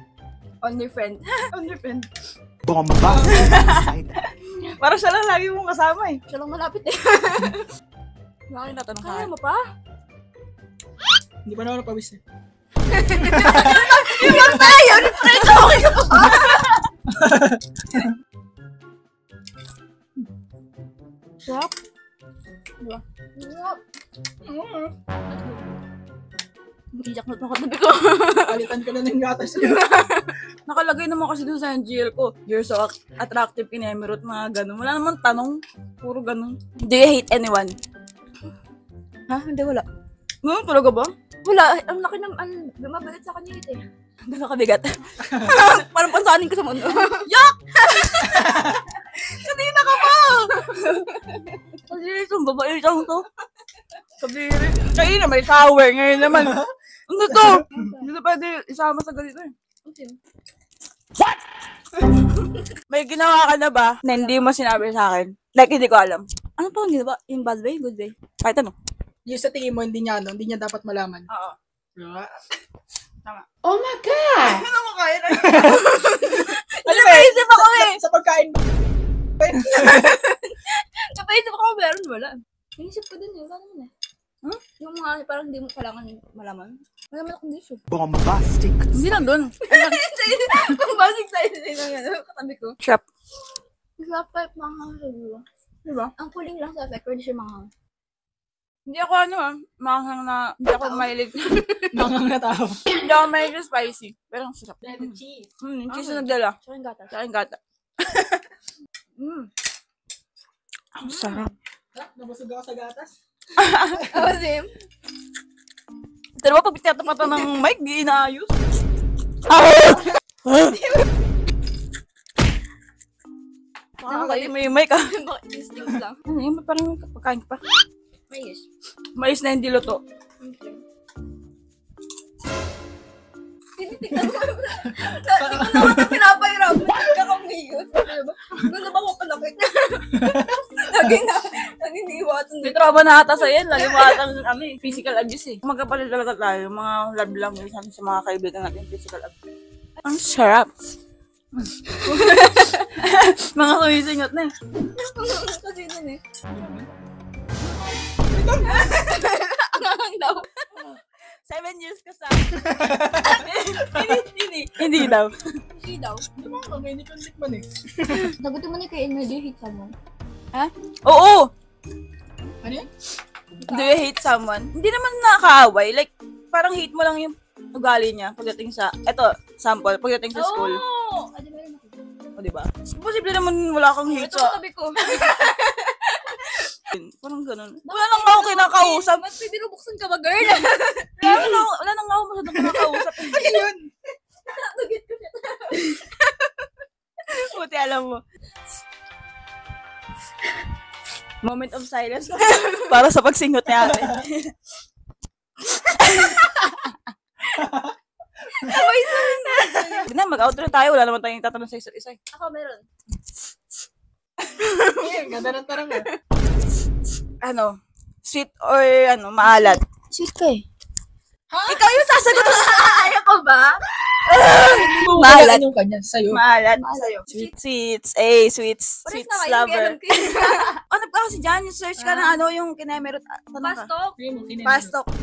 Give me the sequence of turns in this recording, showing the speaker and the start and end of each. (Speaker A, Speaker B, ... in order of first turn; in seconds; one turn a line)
Speaker A: 0.6-1.4
Speaker B: 1.5-2.1
Speaker C: 2.6-4.1
Speaker D: 3.1-3.4
Speaker B: 3.2-6.2
Speaker A: 6.3-7.7
Speaker A: 8.5-9.6
Speaker B: 8.6-9.3
Speaker D: 11.4-12.2
Speaker A: 12.9-16.8
Speaker D: 13.2-13.7
Speaker B: 14.2-14.5
Speaker D: 14.4-14.6
Speaker D: 17.1-18.1
Speaker A: 21.4-21.7
Speaker A: 22.8-23.8
Speaker D: 24.4-24.9
Speaker A: 27.0-28.6
Speaker D: 28.4-29.9
Speaker A: 29.6-30.3
Speaker B: 30.7-37.7
Speaker B: 39.3-39.8
Speaker B: 40.4-41.1
Speaker A: 41.4-43.8
Speaker B: 44.2-45.9
Speaker A: 45.3-47.2
Speaker B: 47.2-48.3
Speaker A: 47.9-48.7
Speaker D: 48.4-48.7
Speaker B: 49.3-50.5
Speaker A: 49.9-51.7
Speaker B: 51.9-53.2
Speaker B: 54.2-59.5
Speaker A: 57.7-58.0
Speaker A: 59.8-60.2
Speaker B: 62.9-66.2
Speaker A: 64.1-64.5
Speaker A: 66.6-68.1
Speaker B: 68.4-68.7
Speaker D: 69.2-71.2
Speaker B: 71.3-71.5
Speaker D: 72.0-72.3
Speaker B: 74.4-75.8
Speaker D: 75.3-75.8
Speaker A: 75.5-77.9
Speaker D: 76.8-78.6
Speaker D: 79.4-80.1
Speaker A: 79.6-83.9
Speaker A: 84.8-87.8
Speaker C: 87.9-88.9
Speaker B: 88.9-90.0
Speaker A: 89.6-92.8
Speaker A: 94.0-95.4
Speaker B: 95.8-96.1
Speaker A: 96.2-97.7
Speaker B: 98.9-101.9
Speaker A: 100.7-101.1
Speaker D: 101.9-102.8
Speaker B: 103.0-106.5
Speaker D: 104.8-105.5
Speaker A: 105.9-107.2
Speaker B: 107.1-107.6
Speaker B: 109.2-109.5
Speaker B: 111.0-111.5
Speaker A: 111.0-111.5
Speaker D: 111.9-113.2
Speaker B: 113.6-114.1
Speaker A: 114.0-114.7
Speaker B: 116.4-118.5
Speaker A: 117.1-117.4
Speaker B: 119.5-120.7
Speaker A: 120.5-121.0
Speaker B: 124.0-125.1
Speaker A: 124.0-126.2
Speaker B: 126.2-127.6
Speaker A: 128.3-128.6
Speaker B: 129.2-130.0
Speaker A: 130.4-130.8
Speaker A: 133.8-142.8
Speaker D: 135.4-136.2
Speaker B: 142.6-149.3
Speaker A: 143.7-144.2
Speaker B: 150.0-150.7
Speaker B: 151.6-154.5
Speaker A: 152.1-152.8
Speaker A: 155.0-156.9
Speaker D: 156.5-156.9
Speaker D: 158.3-158.8
Speaker A: 158.6-160.7
Speaker B: 161.4-162.7
Speaker D: 162.6-163.4
Speaker A: 163.2-165.0
Speaker B: 163.2-164.1
Speaker B: 164.7-165.3
Speaker A: 165.7-166.2
Speaker D: 166.3-168.3
Speaker A: 168.1-169.9
Speaker B: 170.5-171.5
Speaker D: 172.6-172.9
Speaker A: 173.6-174.1
Speaker B: 173.7-180.8
Speaker A: 180.3-182.0
Speaker B: 182.4-184.6
Speaker A: 184.1-186.7
Speaker B: 186.9-189.2
Speaker A: 187.8-191.6
Speaker B: 191.2-193.4
Speaker A: 192.6-193.7
Speaker D: 193.3-193.9
Speaker A: 194.4-196.2
Speaker B: 197.3-198.2
Speaker B: 201.4-204.5
Speaker A: 202.4-202.9
Speaker B: 205.7-206.9
Speaker D: 207.5-207.9
Speaker A: 208.5-210.1
Speaker B: 209.1-212.2
Speaker A: 212.3-212.8
Speaker A: 214.6-215.3
Speaker D: 214.9-216.1
Speaker B: 217.4-219.8
Speaker A: 219.4-220.6
Speaker A: 221.5-223.8
Speaker B: 221.7-223.1
Speaker B: 224.4-224.7
Speaker A: 224.4-225.6
Speaker D: 224.9-226.4
Speaker B: 226.3-233.9
Speaker A: 226.8-227.5
Speaker A: 229.0-230.8
Speaker A: 232.0-232.4
Speaker A: 233.6-234.2
Speaker D: 234.2-234.9
Speaker B: 234.6-235.1